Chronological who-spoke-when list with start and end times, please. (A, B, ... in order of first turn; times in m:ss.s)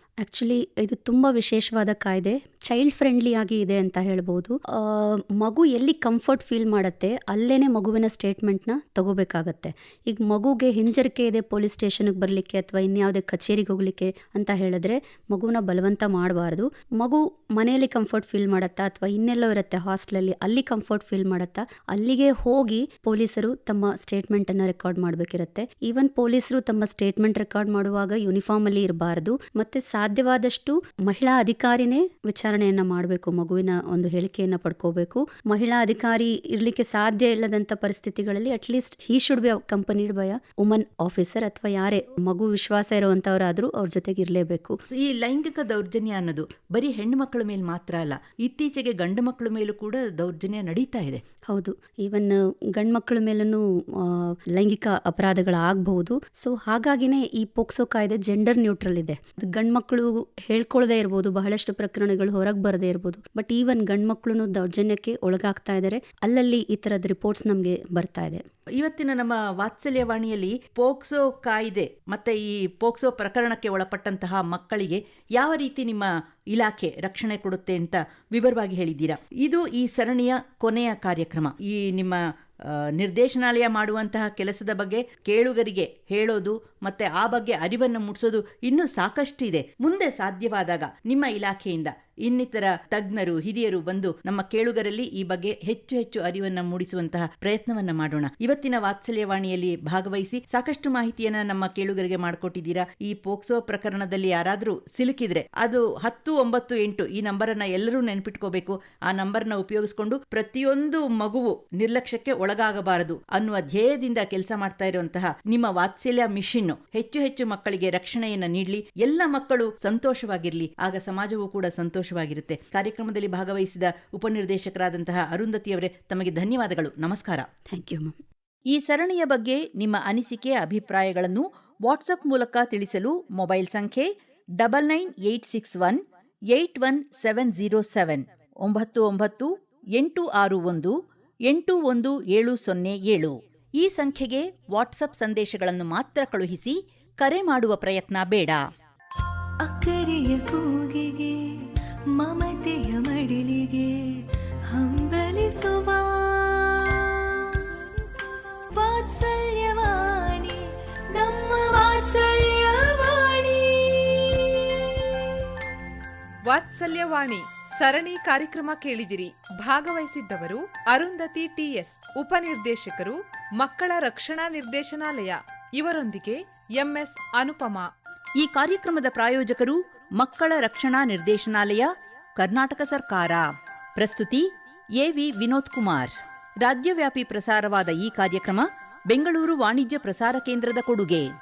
0:00.2-0:44.8 A
0:44.9-0:51.2 B
0:51.5-1:08.4 A
1:08.8-2:07.5 B
2:07.7-2:08.1 A
2:08.7-2:21.0 B
2:21.5-2:28.6 B
2:29.6-2:31.4 C
2:32.1-2:45.4 C
2:46.5-2:57.9 D
2:58.4-3:11.3 B